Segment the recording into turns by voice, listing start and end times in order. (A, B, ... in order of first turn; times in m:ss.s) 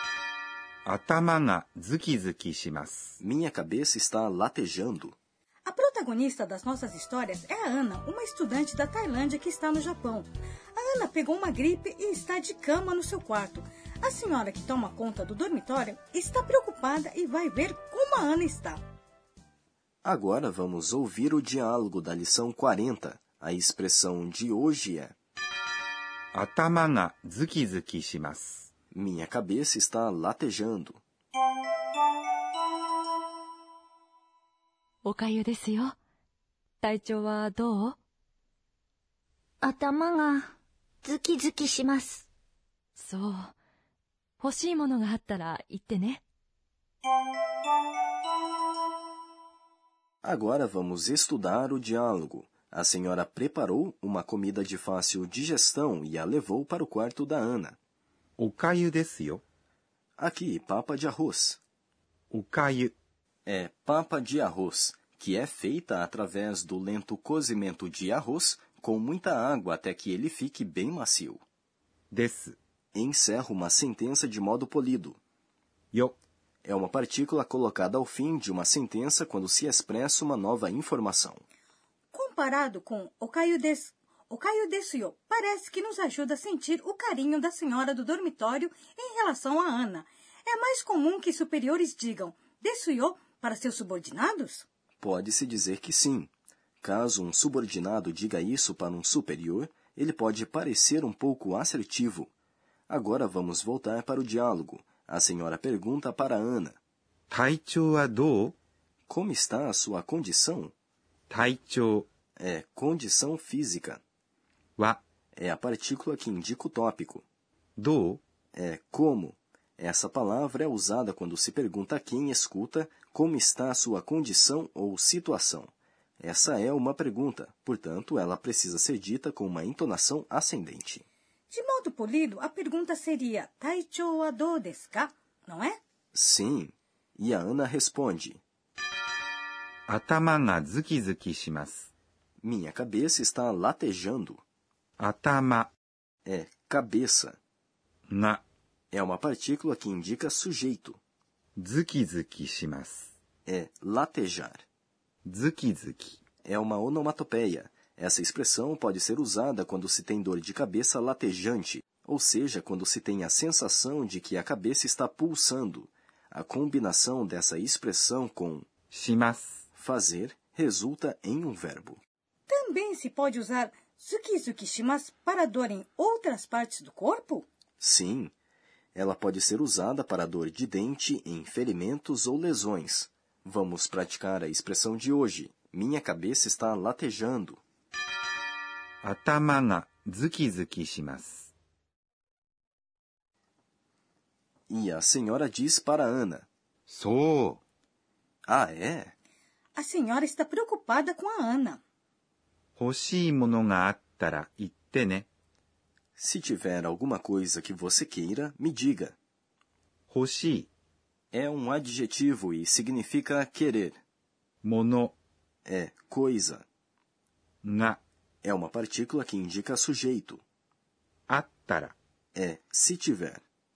0:00.8-0:03.2 A
0:03.2-0:05.2 B
0:05.6-0:18.8 C
0:20.0-0:25.1 B
0:26.3-0:28.7 A
0:28.9-0:31.0 B
0:35.0-0:36.0 D
0:36.8-0:38.0 D
0:39.6-0:40.5 E
0:41.0-0:42.2 E
0:43.0-0:43.5 D
0:44.4-0:46.2 D
0:50.2-0:57.8 B
0:58.4-0:59.4 A
1:00.2-1:01.6 B
1:02.3-1:02.9 A
1:03.4-1:11.4 B
1:12.1-1:12.6 A
1:12.9-1:15.2 B
1:16.6-1:21.4 B
1:22.1-1:34.6 C
1:35.0-1:36.3 B
1:36.8-1:42.3 B
1:42.9-1:46.8 B
1:47.3-1:48.6 A
1:49.1-1:50.7 B
1:51.3-1:52.1 A
1:52.4-1:54.0 B
1:55.3-1:57.2 B
1:57.8-1:58.2 A
1:58.5-2:11.0 B
2:11.5-2:15.8 C
2:16.1-2:18.4 B
2:19.9-2:21.9 A
2:22.4-2:24.4 B
2:25.0-2:25.7 A
2:26.2-2:27.4 B
2:28.1-2:28.4 A
2:28.9-2:31.0 B
2:31.6-2:33.1 A
2:33.4-2:34.6 B
2:35.2-2:36.2 A
2:36.4-2:48.7 B
2:48.9-2:49.6 A
2:49.7-2:52.0 B
2:52.5-2:57.5 C
2:57.8-2:58.3 B
2:58.9-3:07.6 B
3:09.0-3:11.5 A
3:14.7-3:16.5 B
3:16.9-3:17.6 A
3:18.5-3:19.1 B
3:19.7-3:21.8 C
3:22.8-3:25.3 A
3:26.2-3:29.2 B
3:30.1-3:30.7 A
3:31.3-3:34.0 B
3:34.6-3:35.1 A
3:35.6-3:36.6 B
3:37.6-3:38.0 A
3:38.4-3:40.4 B
3:41.3-3:41.9 A
3:42.3-3:43.4 B